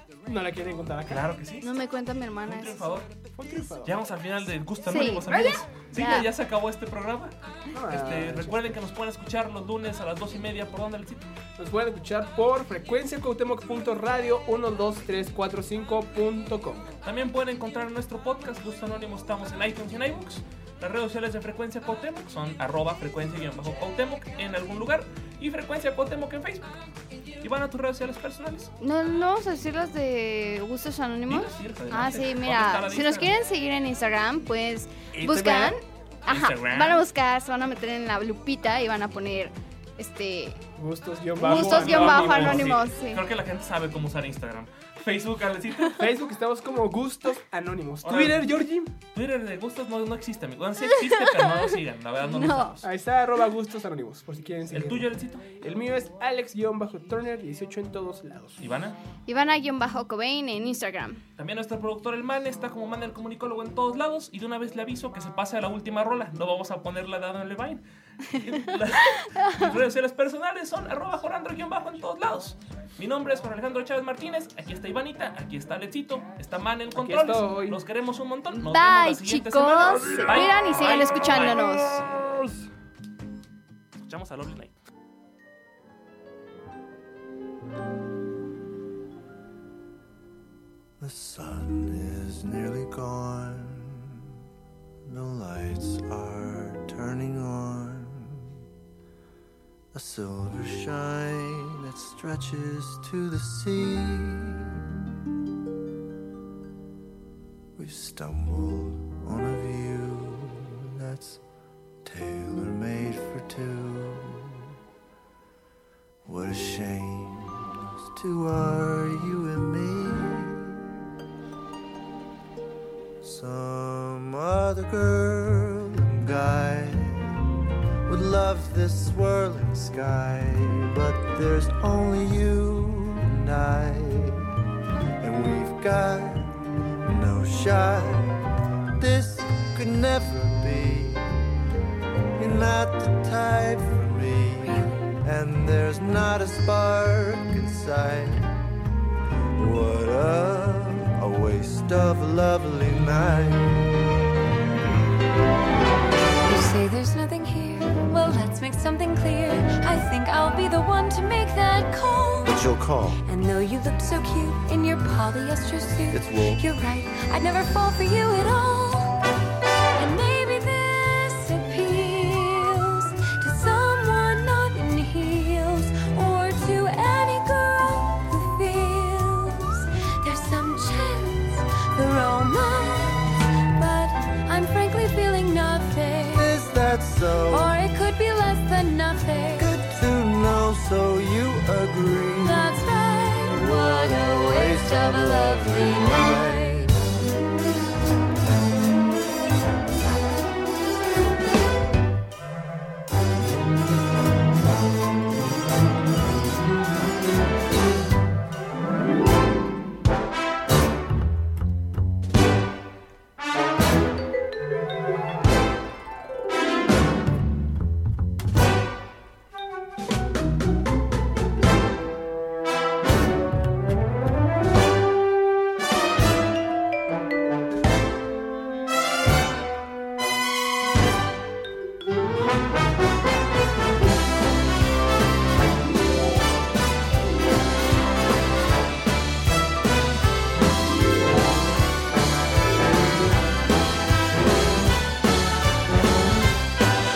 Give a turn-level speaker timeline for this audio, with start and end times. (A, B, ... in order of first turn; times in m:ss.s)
0:00.3-0:01.2 A
0:01.1-0:01.7 B
0:01.6-0:03.0 C
0:02.5-0:03.1 B
0:03.4-0:03.9 A
0:03.8-0:07.4 B
0:04.9-0:06.3 C
0:07.7-0:08.9 A
0:07.9-0:11.3 B
0:11.6-0:16.9 A
0:17.0-0:26.7 B
0:27.4-0:28.7 B
0:28.8-0:40.6 C
0:31.3-0:33.3 B
0:35.1-0:35.8 A
0:36.3-0:37.0 B
0:40.8-0:42.8 A
0:41.4-0:46.0 B
0:41.4-0:43.2 C
0:46.0-0:48.9 A
0:48.0-0:48.5 B
0:49.1-0:52.9 B
0:51.0-0:51.6 C
0:52.2-0:52.8 C
0:52.8-0:55.1 A
0:54.7-0:55.5 B
0:55.6-0:58.6 A
0:58.6-0:59.0 B
0:59.3-1:01.2 C
1:01.4-1:21.7 B
1:09.4-1:09.8 C
1:17.0-1:17.8 A
1:18.5-1:22.0 C
1:24.0-1:24.8 B
1:31.0-1:34.2 D
1:35.1-1:38.5 D
1:39.9-1:44.8 D
1:47.8-1:51.4 D
1:52.0-1:54.5 D
1:56.2-2:00.8 D
2:03.2-2:07.5 D
2:08.1-2:14.4 D
2:15.2-2:18.4 D
2:19.0-2:21.6 D
2:22.4-2:28.6 D
2:29.6-2:34.1 D
2:36.4-2:42.6 E
2:42.4-2:43.2 D
2:43.2-2:49.2 E
2:46.1-2:46.6 D
2:50.0-3:06.6 E
3:06.4-3:07.9 D
3:07.5-3:09.8 E
3:09.6-3:12.8 D
3:12.4-3:17.0 E
3:13.5-3:17.0 D